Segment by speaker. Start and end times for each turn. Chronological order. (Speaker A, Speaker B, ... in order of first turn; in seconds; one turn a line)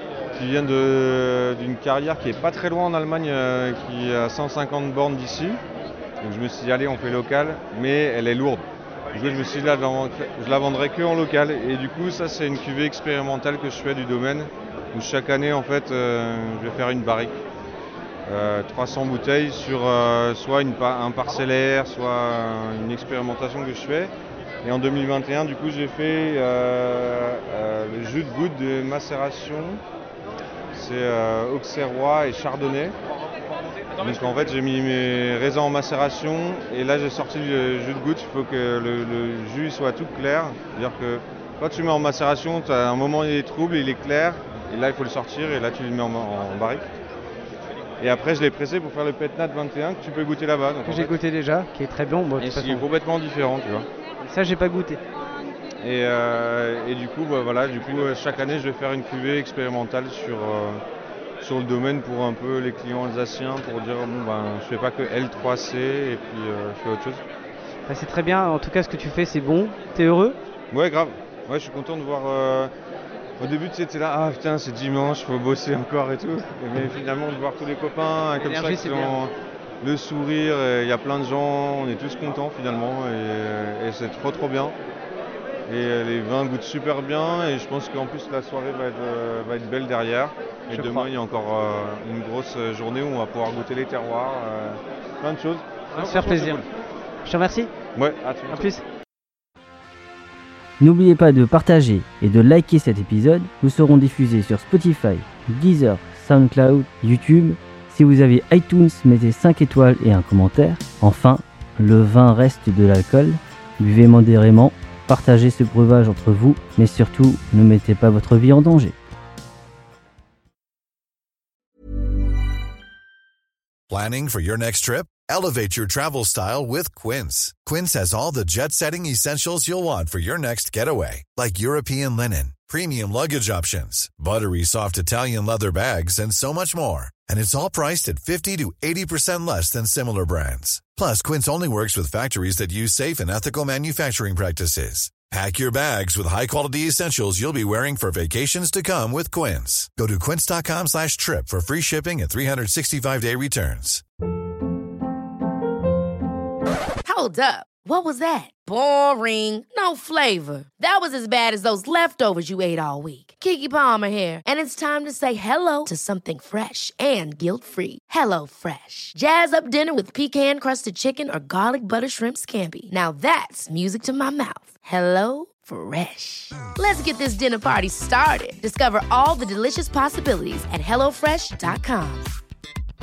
Speaker A: 0.3-5.6
Speaker A: 6.2-17.4
Speaker A: 18.2-24.1
Speaker A: 24.6-29.8
Speaker A: 30.7-32.9
Speaker A: 34.0-46.9
Speaker A: 48.0-51.2
Speaker B: 50.8-52.9
Speaker A: 52.4-53.9
Speaker B: 54.2-55.0
Speaker A: 55.8-60.8
Speaker A: 61.4-67.2
Speaker B: 67.9-70.4
Speaker A: 70.7-72.7
Speaker A: 73.4-84.7
Speaker B: 78.3-79.2
Speaker A: 85.7-96.6
Speaker B: 90.7-91.1
Speaker B: 95.9-96.6
Speaker B: 97.2-97.7
Speaker A: 97.9-98.7
Speaker B: 98.5-98.8
Speaker C: 100.8-118.9
Speaker D: 123.9-154.0
Speaker E: 157.1-182.3